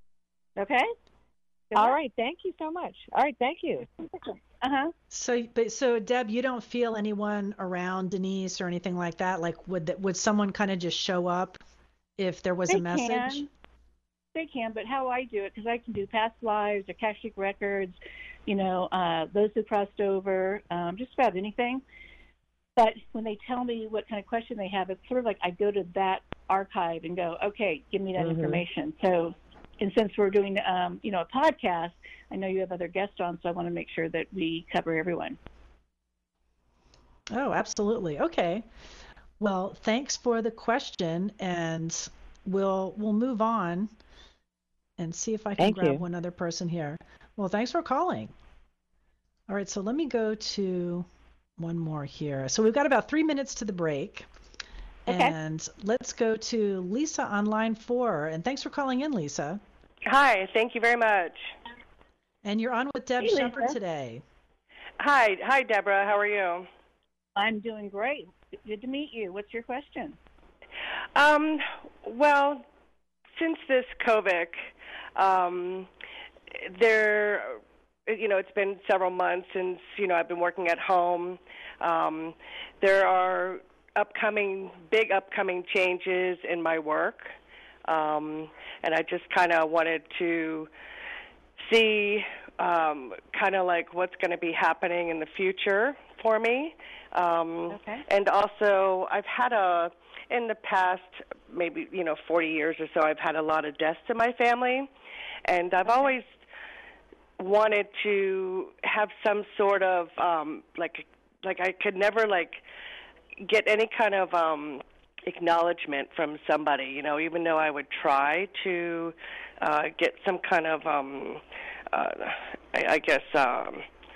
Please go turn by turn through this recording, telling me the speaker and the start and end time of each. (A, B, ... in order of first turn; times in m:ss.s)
0:00.6-0:00.9 A
0:01.7-0:02.0 A
0:01.8-0:03.9 B
0:04.1-0:04.9 A
0:05.1-0:11.6 C
0:12.2-0:13.4 C
0:12.7-0:13.5 A
0:14.4-0:21.8 A
0:22.8-0:35.4 A
0:28.2-0:28.6 B
0:37.3-0:38.6 C
0:39.4-0:43.9 C
0:45.0-0:48.3 C
0:45.6-0:46.0 B
0:49.5-0:51.1 C
0:51.6-0:54.3 C
0:55.1-0:55.4 A
0:55.1-0:59.6 C
1:00.1-1:01.5 D
1:02.4-1:04.2 C
1:03.2-1:03.8 A
1:05.0-1:06.7 D
1:07.4-1:10.2 A
1:11.1-1:12.6 D
1:13.3-1:15.9 D
1:16.5-1:27.3 D
1:27.8-1:30.7 D
1:31.6-1:44.9 D
1:37.7-1:38.0 A
1:45.4-1:46.4 D
1:45.9-1:46.1 A
1:47.4-1:52.6 D
1:53.4-2:03.9 D